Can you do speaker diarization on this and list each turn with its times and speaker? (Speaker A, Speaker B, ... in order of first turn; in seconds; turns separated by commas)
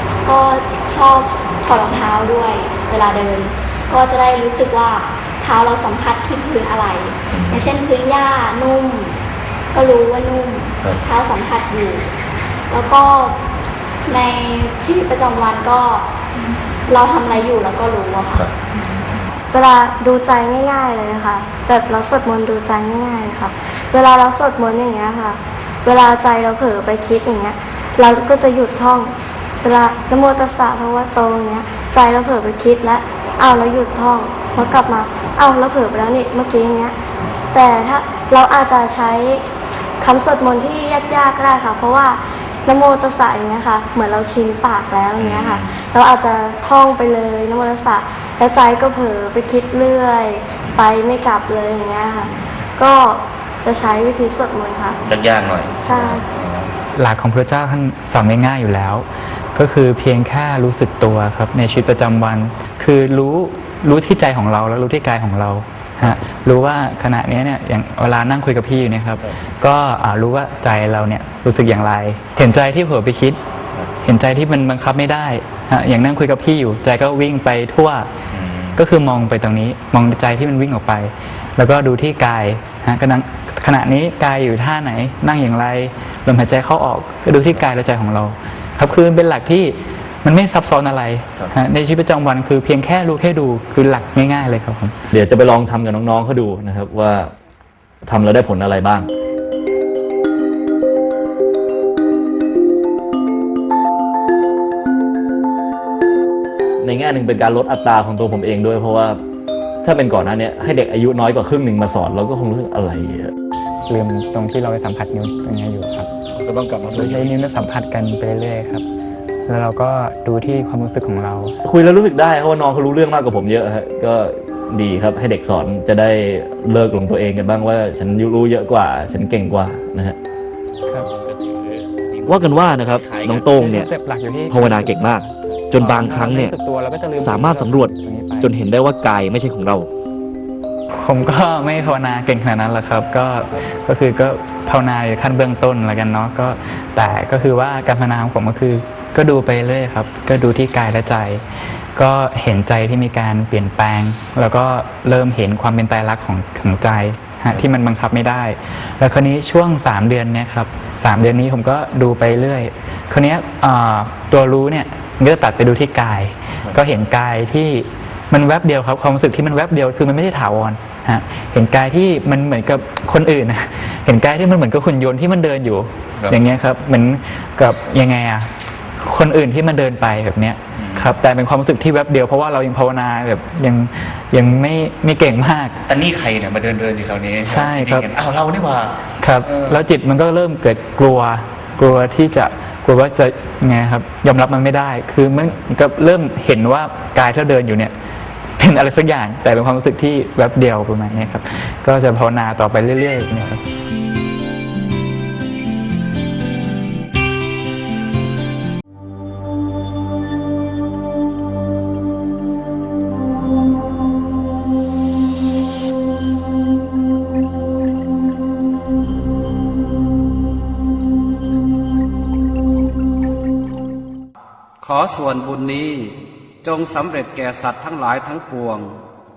Speaker A: 0.2-9.2, Speaker B: 7.3-7.7, Speaker A: 9.7-12.1, Speaker A: 12.7-13.4, Speaker A: 14.0-16.1, Speaker A: 16.9-18.5, Speaker C: 19.5-37.0, Speaker C: 37.5-39.4, Speaker C: 40.0-55.0, Speaker B: 45.2-45.8, Speaker B: 55.1-56.7, Speaker C: 55.8-56.3, Speaker D: 57.0-73.4, Speaker D: 74.0-78.1, Speaker B: 78.3-78.8, Speaker D: 78.8-95.0, Speaker B: 95.1-97.3, Speaker B: 98.0-99.1, Speaker B: 106.8-109.2, Speaker B: 109.8-113.3, Speaker D: 113.9-116.1, Speaker B: 116.3-117.5, Speaker D: 116.9-118.8, Speaker D: 119.5-121.6, Speaker B: 121.6-130.2, Speaker B: 131.0-133.5, Speaker E: 132.3-133.9, Speaker D: 133.6-138.5, Speaker E: 134.5-136.6, Speaker E: 137.2-139.9, Speaker D: 140.9-151.4, Speaker D: 152.0-185.8, Speaker B: 180.8-181.2, Speaker B: 185.9-189.8, Speaker D: 187.4-188.1, Speaker D: 189.2-197.9, Speaker D: 198.6-203.6, Speaker B: 201.1-201.4, Speaker F: 224.8-229.0